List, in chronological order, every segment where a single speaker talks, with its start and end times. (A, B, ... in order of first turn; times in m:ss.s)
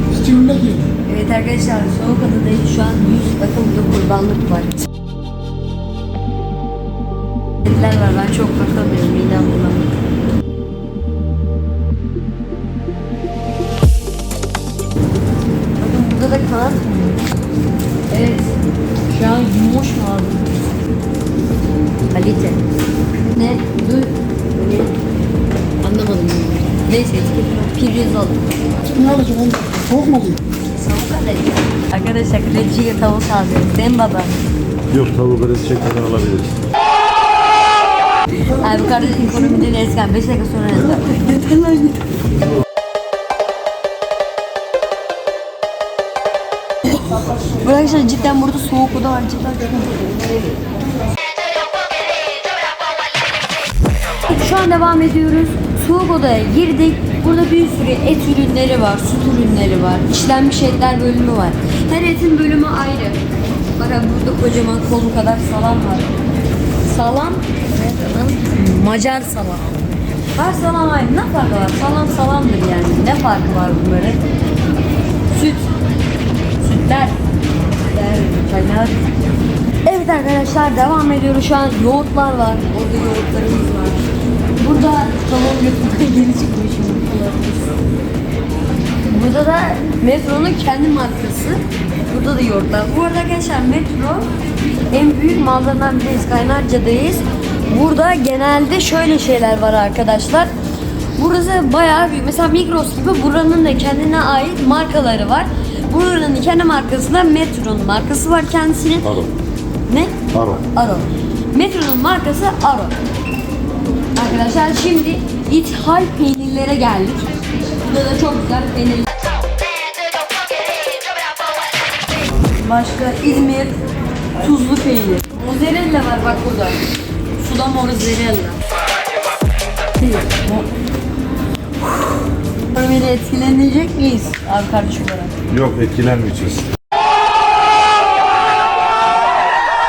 0:00.2-0:00.9 A
0:01.1-0:04.8 B
0:07.6-0:09.9 B
0:15.8-0:17.3 B
0:18.1-0:18.4 B
0:19.1-0:20.6 B
0:22.1-0:22.6 B
0:23.3-0:25.0 B
0:25.8-0:28.4 B
0:28.9-0:30.4 A
0:30.8-0:34.4 B
0:34.9-0:36.6 C
0:38.4-0:42.1 B
0:47.0-0:50.0 B
0:54.2-1:03.2 B
1:03.8-1:06.1 B
1:06.8-1:14.2 B
1:15.3-1:15.6 B
1:16.6-1:17.2 B
1:17.9-1:19.0 B
1:19.8-1:24.0 B
1:24.6-1:27.7 B
1:29.0-1:34.3 B
1:34.9-1:40.5 B
1:41.2-1:49.2 B
1:49.0-1:49.3 C
1:49.9-1:50.2 B
1:50.3-1:50.6 C
1:50.7-1:52.9 B
1:54.2-1:59.1 B
2:02.5-2:03.7 B
2:04.4-2:06.8 B
2:07.4-2:08.6 B
2:10.0-2:10.7 B
2:12.7-2:15.3 B
2:15.5-2:16.6 C